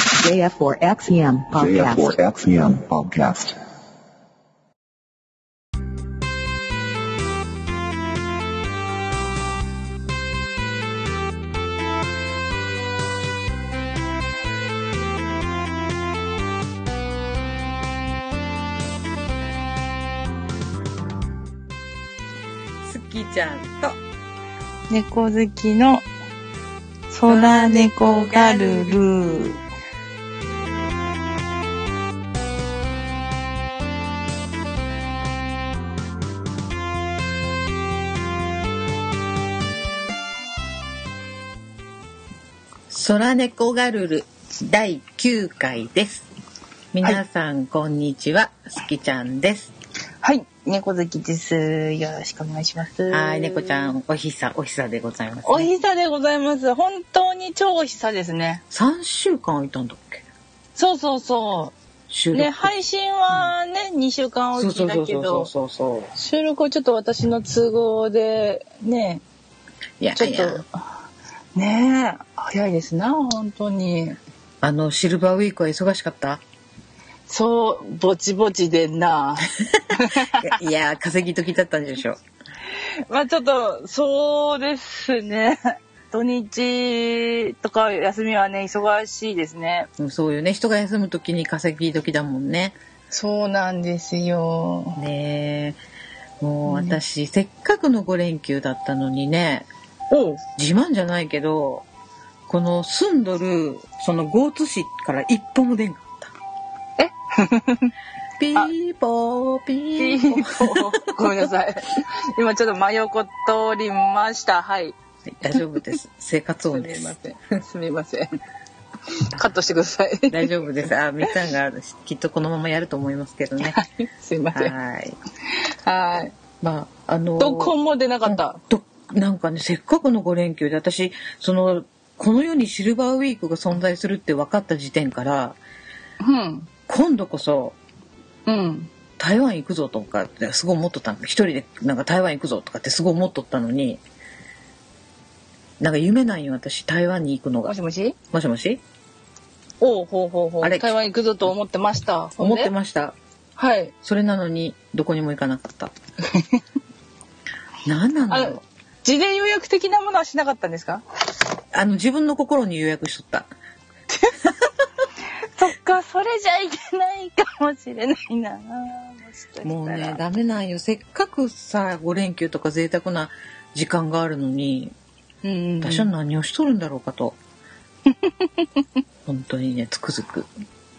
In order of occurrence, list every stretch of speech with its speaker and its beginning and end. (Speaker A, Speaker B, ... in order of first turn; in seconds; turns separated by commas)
Speaker A: 0.1-2.1, Speaker B: 1.5-3.6, Speaker C: 22.8-24.0, Speaker D: 24.9-26.1, Speaker D: 27.1-29.6, Speaker C: 27.3-29.5, Speaker C: 42.9-46.3, Speaker C: 46.9-49.7, Speaker D: 50.2-53.9, Speaker C: 53.1-55.7, Speaker D: 55.4-58.6, Speaker C: 58.7-60.2, Speaker D: 60.8-61.7, Speaker C: 62.1-62.7, Speaker D: 62.3-65.5, Speaker C: 64.5-66.1, Speaker D: 66.1-69.2, Speaker C: 70.0-70.6, Speaker D: 70.2-70.6, Speaker D: 71.5-74.2, Speaker C: 74.6-76.4, Speaker D: 77.3-80.5, Speaker C: 79.7-82.2, Speaker D: 83.1-89.9, Speaker C: 90.0-92.8, Speaker D: 93.1-95.0, Speaker C: 95.0-95.8, Speaker C: 96.4-99.7, Speaker D: 96.7-97.0, Speaker D: 100.1-100.4, Speaker C: 100.6-101.8, Speaker C: 102.5-106.3, Speaker D: 107.0-107.9, Speaker C: 108.4-111.1, Speaker D: 110.0-114.9, Speaker C: 115.3-117.1, Speaker D: 116.7-118.3, Speaker D: 119.2-120.5, Speaker C: 120.3-123.8, Speaker D: 123.6-124.7, Speaker C: 124.5-125.2, Speaker D: 125.8-126.3, Speaker C: 126.6-135.6, Speaker D: 127.4-128.6, Speaker D: 136.2-136.7, Speaker C: 136.9-137.8, Speaker D: 138.4-138.9, Speaker C: 139.2-144.0, Speaker C: 145.8-147.7, Speaker D: 147.7-148.2, Speaker C: 148.3-148.8, Speaker D: 149.8-152.7, Speaker C: 150.6-150.9, Speaker C: 152.4-153.2, Speaker D: 153.6-153.9, Speaker C: 154.0-155.9, Speaker D: 156.3-156.6, Speaker C: 157.8-158.6, Speaker D: 158.3-161.0, Speaker C: 161.7-163.5, Speaker D: 164.1-164.4, Speaker D: 165.5-170.2, Speaker C: 169.6-174.9, Speaker D: 175.4-176.1, Speaker C: 175.8-177.4, Speaker C: 179.2-180.5